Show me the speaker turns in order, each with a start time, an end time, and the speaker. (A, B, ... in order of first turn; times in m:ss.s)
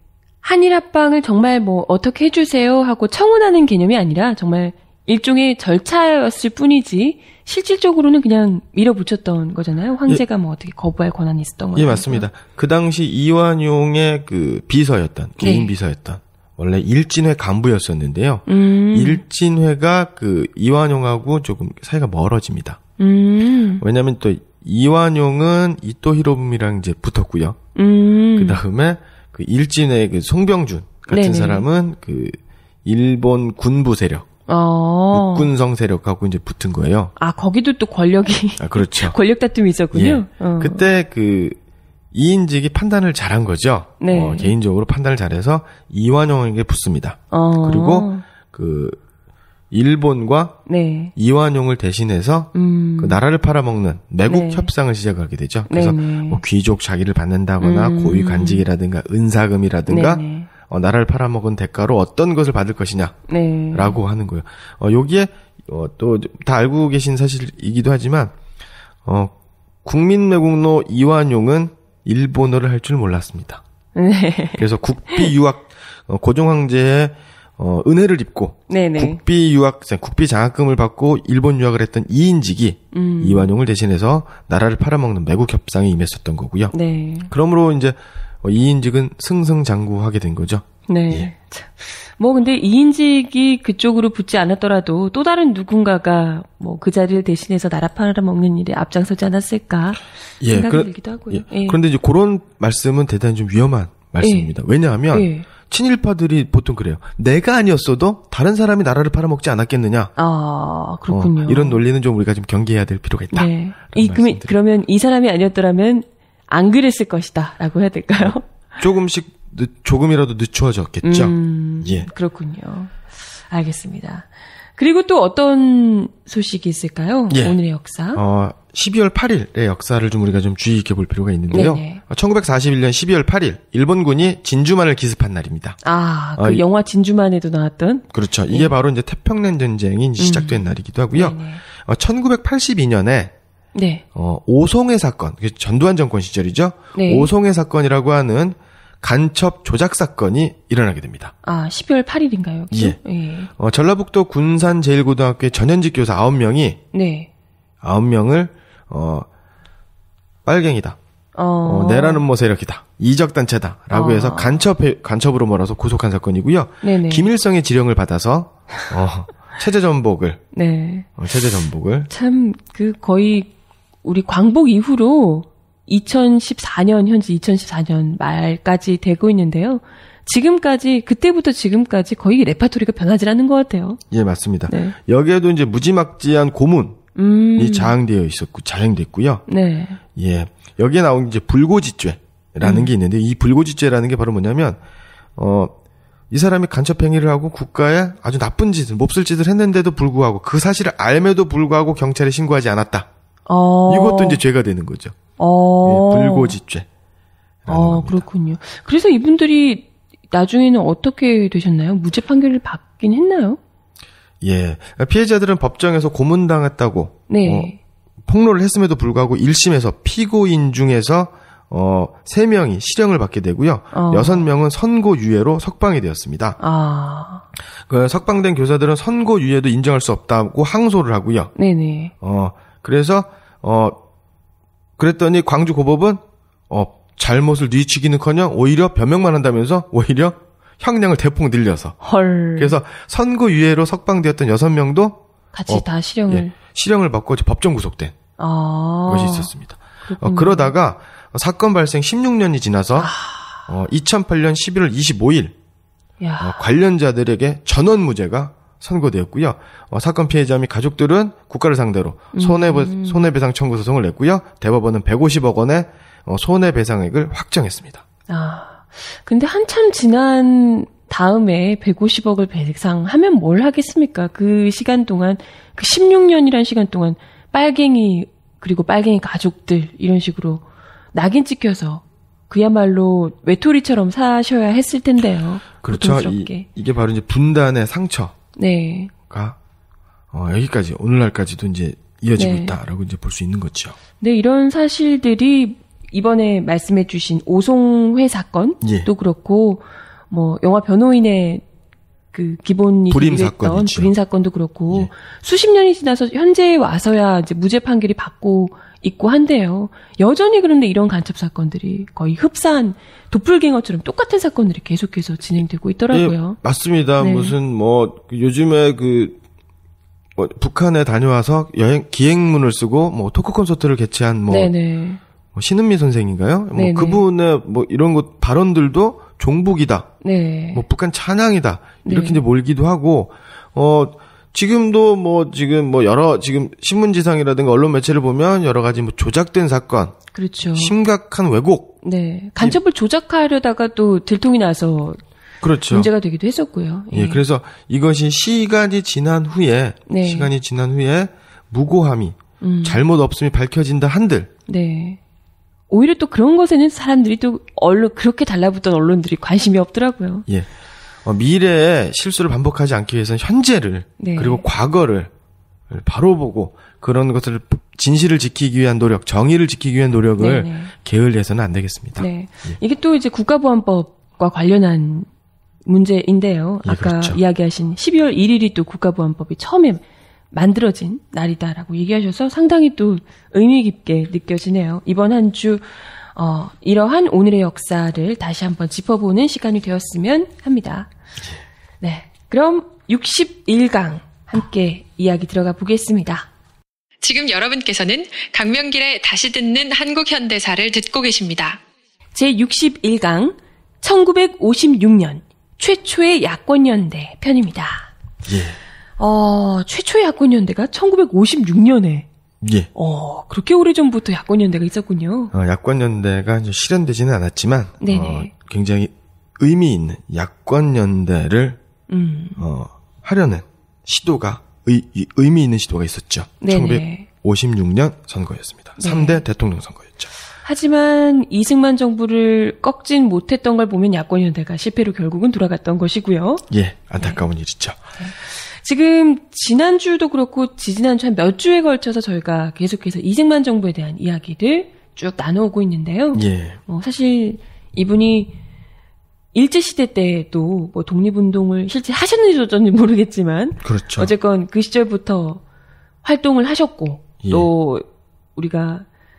0:00.4-0:12.2 A
0:11.7-0:22.8 B
0:15.4-0:15.7 A
0:18.5-0:19.2 A
0:23.0-0:23.8 A
0:23.8-0:27.6 B
0:27.7-0:28.6 A
0:28.4-0:34.2 B
0:31.1-0:31.6 A
0:34.5-0:35.5 A
0:35.1-0:37.1 B
0:37.2-0:40.8 A
0:38.6-0:39.2 B
0:39.9-0:41.6 B
0:42.1-0:49.0 B
0:44.0-0:44.5 A
0:47.3-0:48.2 A
0:49.7-0:50.6 B
0:50.7-0:51.1 A
0:51.2-1:03.2 B
0:52.5-0:53.2 A
0:54.2-0:54.7 A
0:55.7-0:56.4 A
0:57.6-0:58.6 A
0:59.9-1:00.5 A
1:03.3-1:04.0 A
1:03.7-1:08.3 B
1:09.0-1:09.3 B
1:09.8-1:13.6 B
1:13.9-1:15.3 A
1:14.6-1:26.7 B
1:18.7-1:19.2 A
1:22.9-1:23.5 A
1:26.7-1:27.3 A
1:27.3-1:31.3 B
1:30.9-1:41.8 A
1:40.4-1:50.1 B
1:44.2-1:44.5 A
1:45.1-1:45.5 A
1:50.2-1:51.8 A
1:51.1-1:54.6 B
1:53.3-1:58.4 A
1:58.2-2:02.1 B
2:01.0-2:02.9 A
2:03.5-2:08.2 A
2:07.3-2:07.6 B
2:08.1-2:15.8 B
2:11.5-2:12.0 A
2:15.8-2:18.7 A
2:16.4-2:16.6 B
2:18.1-2:23.3 B
2:20.2-2:21.6 A
2:23.7-2:24.0 A
2:24.1-2:31.3 B
2:26.9-2:27.3 A
2:31.4-2:33.5 A
2:32.7-2:33.0 B
2:33.6-2:36.8 B
2:36.9-2:37.3 A
2:37.8-2:39.3 B
2:40.4-2:41.0 B
2:41.3-2:42.2 A
2:41.6-2:50.4 B
2:43.9-2:44.6 A
2:46.8-2:47.3 A
2:50.5-2:51.1 A
2:51.2-2:52.1 B
2:52.1-2:53.5 A
2:54.0-3:04.0 A
3:04.1-3:07.0 B
3:04.7-3:05.0 A
3:07.1-3:07.9 A
3:07.6-3:09.4 B
3:09.5-3:10.0 A
3:10.2-3:14.8 B
3:12.6-3:12.9 A
3:15.4-3:15.7 B
3:16.3-3:23.1 B
3:23.5-3:24.4 A
3:23.9-3:25.2 B
3:25.4-3:26.6 A
3:25.8-3:26.9 B
3:27.6-3:28.2 B
3:27.7-3:33.6 A
3:34.4-3:37.7 B
3:37.3-3:37.8 A
3:38.3-3:46.6 B
3:43.9-3:44.4 A
3:46.6-3:47.4 A
3:47.9-3:51.5 B
3:51.6-3:52.1 A
3:52.2-3:54.0 B
3:55.0-4:02.0 B
4:02.0-4:02.8 A
4:02.6-4:08.1 B
4:05.5-4:06.5 A
4:08.4-4:09.5 A
4:09.1-4:13.1 B
4:10.0-4:10.7 A
4:13.0-4:13.6 A
4:13.7-4:15.5 B
4:16.2-4:16.6 A
4:16.4-4:28.0 B
4:22.3-4:23.2 A
4:28.3-4:46.6 A
4:45.8-4:48.3 B
4:48.6-4:49.1 A
4:49.3-4:49.6 B
4:50.3-4:54.0 B
4:52.4-4:52.7 A
4:54.2-5:01.6 A
4:58.8-4:59.1 B
5:02.3-5:16.6 A
5:03.1-5:04.1 B
5:16.1-5:19.4 B
5:17.2-5:17.5 A
5:20.4-5:24.7 B
5:24.5-5:25.2 A
5:25.5-5:30.1 B
5:26.7-5:27.2 A
5:30.2-5:30.8 A
5:30.7-5:40.2 B
5:32.0-5:32.4 A
5:40.3-5:40.9 A
5:40.7-5:42.0 B
5:42.0-5:45.2 A
5:45.6-5:46.1 B
5:45.9-5:47.4 A
5:47.1-5:54.5 B
5:50.1-5:50.5 A
5:52.6-5:53.0 A
5:54.7-5:55.2 A
5:55.9-6:00.4 A
6:01.2-6:05.3 B
6:04.2-6:04.6 A
6:05.9-6:12.7 B
6:10.4-6:10.9 A
6:12.2-6:15.3 A
6:15.8-6:31.1 A
6:16.8-6:17.4 B
6:32.0-6:36.5 A
6:37.2-6:41.8 C
6:42.3-6:48.1 A
6:48.4-6:48.8 B
6:49.2-6:52.3 A
6:52.6-6:52.9 B
6:52.9-6:55.5 A
6:55.5-7:01.8 B
6:58.0-6:58.5 A
7:02.1-7:02.6 A
7:02.6-7:10.3 B
7:06.6-7:07.3 A
7:09.0-7:09.4 A
7:10.6-7:16.6 A
7:16.7-7:18.0 B
7:18.2-7:28.5 A
7:26.3-7:26.8 B
7:29.5-7:35.6 A
7:33.8-7:34.3 B
7:36.2-7:38.0 A
7:37.4-7:37.7 B
7:38.6-7:39.0 A